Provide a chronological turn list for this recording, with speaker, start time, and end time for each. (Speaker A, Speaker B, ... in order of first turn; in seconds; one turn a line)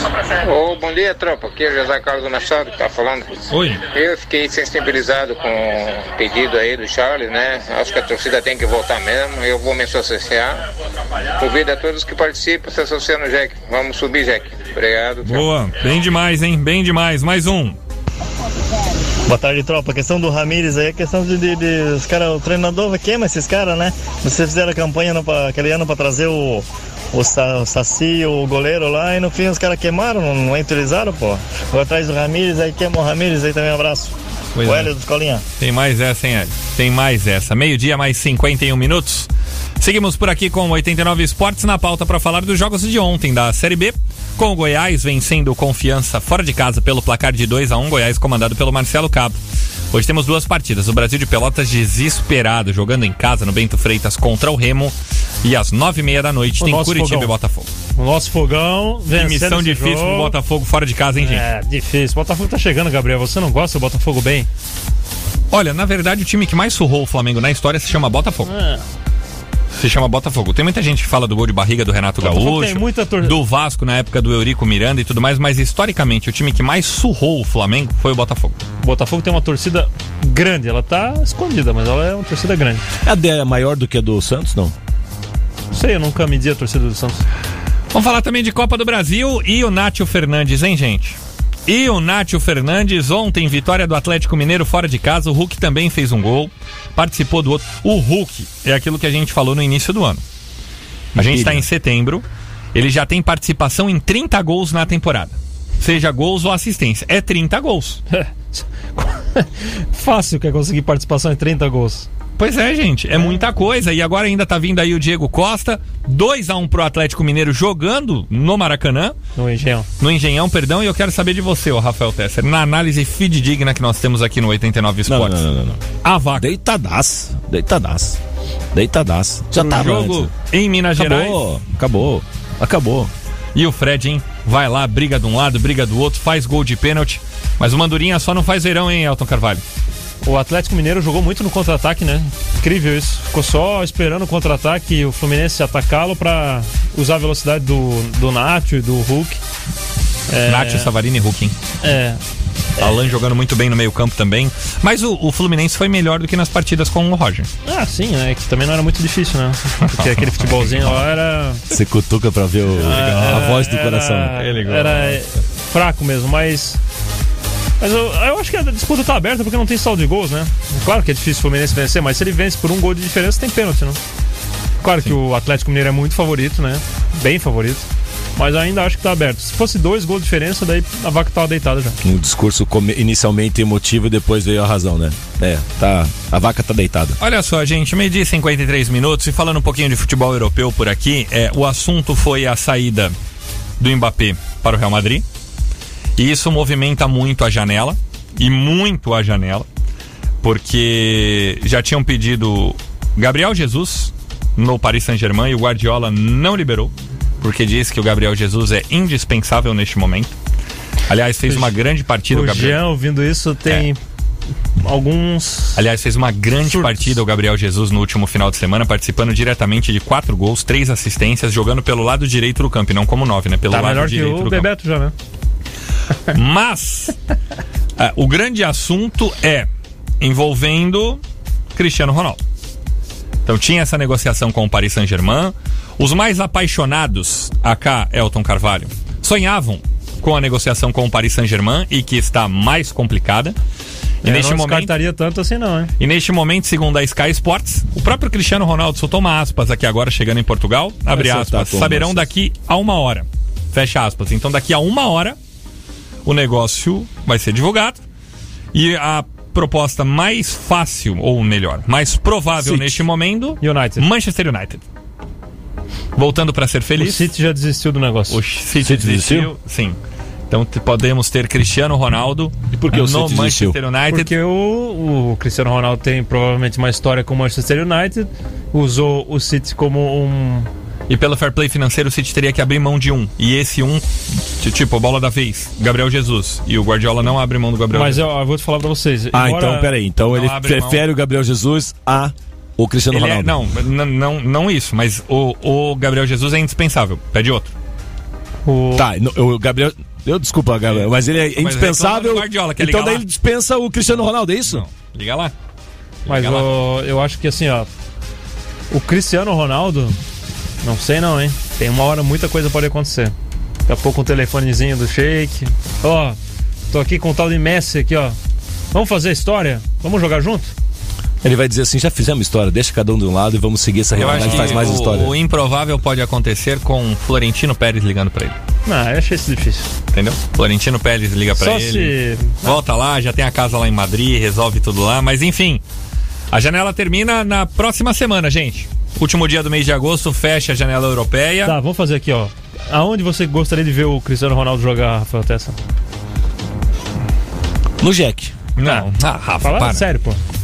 Speaker A: 0.3-10.6
Speaker B: 3.5-3.8
Speaker A: 11.4-15.5
Speaker B: 15.2-17.8
Speaker C: 19.3-35.4
Speaker B: 34.5-34.9
Speaker B: 35.6-39.3
Speaker B: 39.8-49.4
Speaker B: 49.9-57.7
Speaker D: 56.6-57.3
Speaker D: 57.9-60.3
Speaker B: 59.1-61.4
Speaker D: 61.2-64.5
Speaker B: 65.5-68.5
Speaker D: 68.5-68.8
Speaker B: 69.7-78.6
Speaker D: 72.2-73.3
Speaker D: 78.8-82.8
Speaker E: 83.0-84.7
Speaker D: 85.7-87.2
Speaker B: 87.9-100.2
Speaker E: 101.1-101.6
Speaker B: 101.1-108.0
Speaker D: 108.1-112.1
Speaker B: 112.4-119.1
Speaker D: 119.3-119.9
Speaker B: 120.0-125.4
Speaker E: 125.1-125.8
Speaker B: 126.0-126.5
Speaker E: 126.3-128.2
Speaker E: 128.7-130.3
Speaker B: 129.5-131.4
Speaker E: 130.9-133.1
Speaker B: 133.5-139.6
Speaker D: 140.2-149.4
Speaker D: 150.3-150.9
Speaker B: 150.4-151.5
Speaker D: 151.8-152.2
Speaker B: 152.8-157.5
Speaker D: 157.6-161.6
Speaker B: 159.9-161.0
Speaker E: 161.7-164.4
Speaker B: 162.8-163.8
Speaker D: 162.8-166.8
Speaker B: 164.3-165.2
Speaker D: 167.8-174.0
Speaker D: 174.8-182.0
Speaker E: 182.0-187.2
Speaker B: 187.2-193.1
Speaker B: 193.8-195.2
Speaker B: 196.2-199.7
Speaker B: 200.4-210.3
Speaker B: 211.1-212.8
Speaker D: 211.5-211.7
Speaker D: 212.3-214.0
Speaker D: 214.8-215.8
Speaker B: 215.7-224.7
Speaker D: 216.7-217.1
Speaker D: 223.7-225.1
Speaker B: 226.3-227.2
Speaker B: 228.0-229.7
Speaker B: 230.2-231.2
Speaker B: 231.7-232.4
Speaker B: 233.4-243.6
Speaker B: 244.2-244.9
Speaker D: 244.2-245.9
Speaker B: 246.0-255.4
Speaker E: 251.1-252.3
Speaker B: 256.2-258.0
Speaker B: 258.7-264.8
Speaker D: 262.6-263.0
Speaker D: 263.6-264.1
Speaker B: 266.1-267.3
Speaker D: 267.0-268.4
Speaker B: 268.3-270.0
Speaker E: 268.8-269.5
Speaker B: 270.5-274.3
Speaker E: 272.7-273.8
Speaker D: 274.1-280.7
Speaker B: 281.1-288.2
Speaker D: 287.9-289.9
Speaker E: 289.3-293.6
Speaker B: 290.3-291.0
Speaker B: 293.1-297.7
Speaker D: 298.6-299.1
Speaker E: 298.9-304.8
Speaker B: 300.9-303.2
Speaker B: 304.7-305.5
Speaker B: 306.3-306.8
Speaker D: 306.3-307.9
Speaker D: 308.9-310.2
Speaker D: 310.8-313.3
Speaker D: 313.9-316.4
Speaker D: 316.9-318.4
Speaker D: 318.9-320.7
Speaker E: 321.4-325.4
Speaker B: 324.1-328.6
Speaker D: 324.3-324.8
Speaker D: 328.9-329.9
Speaker B: 330.1-335.8
Speaker D: 331.5-332.8
Speaker B: 336.5-341.8
Speaker D: 341.6-345.8
Speaker E: 348.0-348.5
Speaker B: 348.8-350.1
Speaker D: 348.8-349.1
Speaker D: 349.6-350.4